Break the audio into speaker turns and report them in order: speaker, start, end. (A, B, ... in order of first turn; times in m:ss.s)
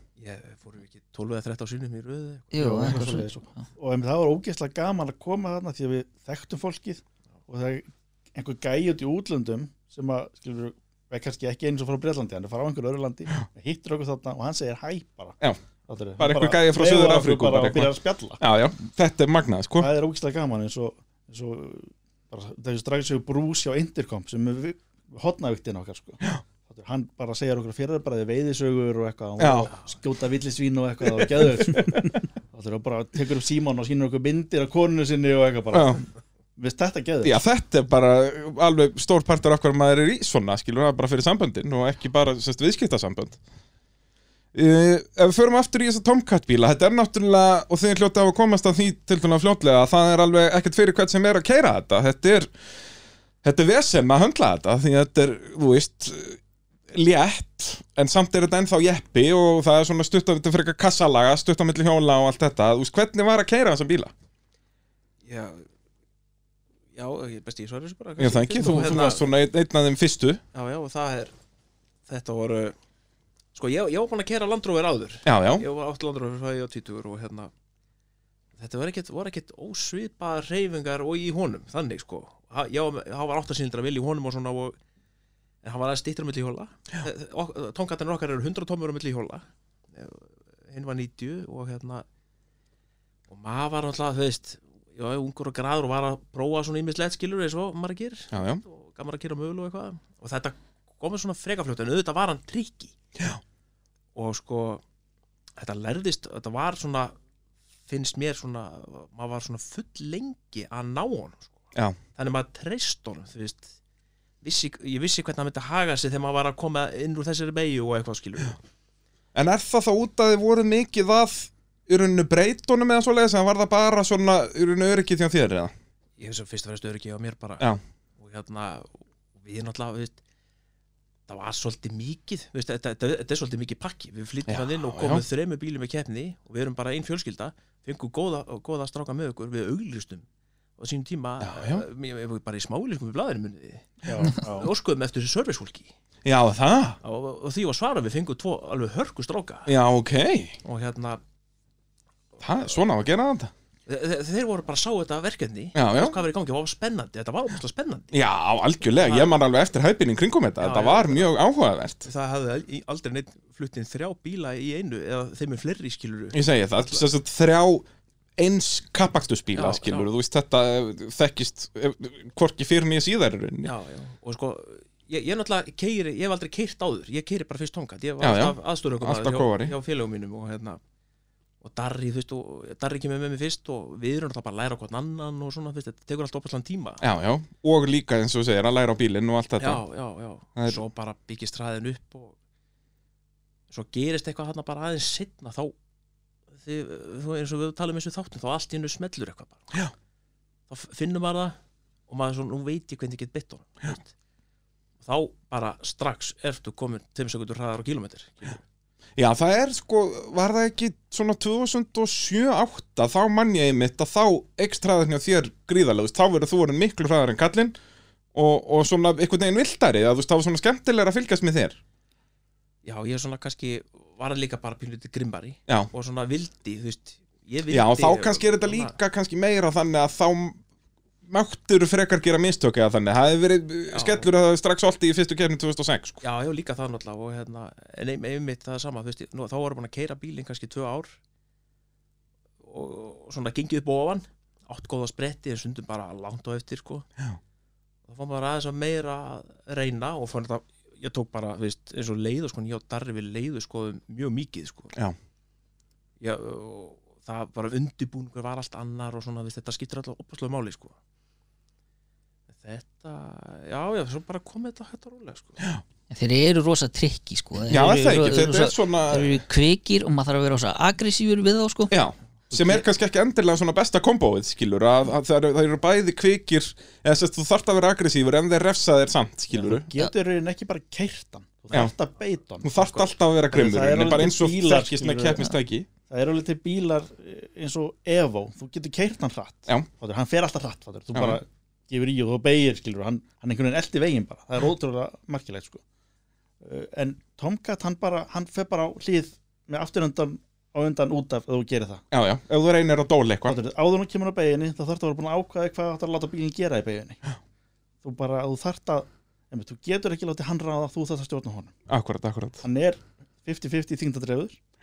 0:00.2-0:03.1 A
0:02.5-0:03.6 B
0:02.6-0:15.4 C
0:15.9-0:18.4 C
0:16.2-0:19.9 D
0:19.8-0:36.0 C
0:29.4-0:29.7 D
0:35.7-0:36.0 D
0:36.6-0:37.4 C
0:37.2-0:43.4 D
0:44.5-0:52.5 D
0:53.4-0:56.4 D
0:56.9-1:04.1 D
1:05.2-1:05.7 A
1:06.9-1:09.3 A
1:08.2-1:10.4 D
1:10.5-1:11.3 A
1:12.1-1:12.7 A
1:13.5-1:17.5 A
1:15.2-1:15.6 D
1:18.6-1:24.8 A
1:25.6-1:32.0 A
1:33.3-1:42.9 A
1:38.3-1:38.6 D
1:44.1-1:44.8 A
1:45.6-1:47.1 A
1:47.9-1:53.7 A
1:54.4-1:58.6 A
1:59.3-2:05.7 D
2:06.2-2:07.6 A
2:08.2-2:10.2 A
2:11.3-2:20.2 A
2:14.5-2:15.2 D
2:20.8-2:25.9 A
2:21.4-2:21.8 D
2:24.0-2:24.7 C
2:26.2-2:27.0 D
2:27.0-2:29.7 A
2:29.6-2:30.6 D
2:30.6-2:31.2 A
2:32.4-2:33.5 D
2:33.9-2:38.1 A
2:35.7-2:36.2 D
2:38.1-2:42.0 D
2:38.9-2:39.4 A
2:40.6-2:41.3 A
2:42.0-2:47.0 A
2:46.3-2:47.9 D
2:48.4-2:53.7 D
2:49.5-2:50.1 A
2:53.6-3:00.8 A
2:58.2-2:59.7 D
3:01.6-3:07.0 A
3:07.0-3:09.8 D
3:09.6-3:12.3 A
3:13.7-3:15.7 A
3:16.6-3:19.7 A
3:20.7-3:21.6 A
3:22.1-3:24.1 A
3:25.0-3:28.6 A
3:29.2-3:37.7 D
3:38.3-3:41.8 D
3:42.8-3:48.9 A
3:47.7-3:50.6 D
3:51.2-3:56.2 D
3:53.9-3:54.3 A
3:56.2-4:01.1 A
4:02.6-4:07.0 A
4:08.1-4:14.9 A
4:16.2-4:21.0 A
4:22.5-4:25.6 A
4:26.1-4:31.9 B
4:27.7-4:29.4 D
4:31.9-4:39.8 D
4:32.5-4:32.8 C
4:39.5-4:45.5 C
4:42.6-4:45.9 D
4:46.1-4:55.8 C
4:51.1-4:51.4 D
4:56.6-5:02.0 C
5:02.1-5:03.6 D
5:03.5-5:07.2 C
5:08.0-5:11.7 C
5:11.9-5:12.6 D
5:12.6-5:14.6 C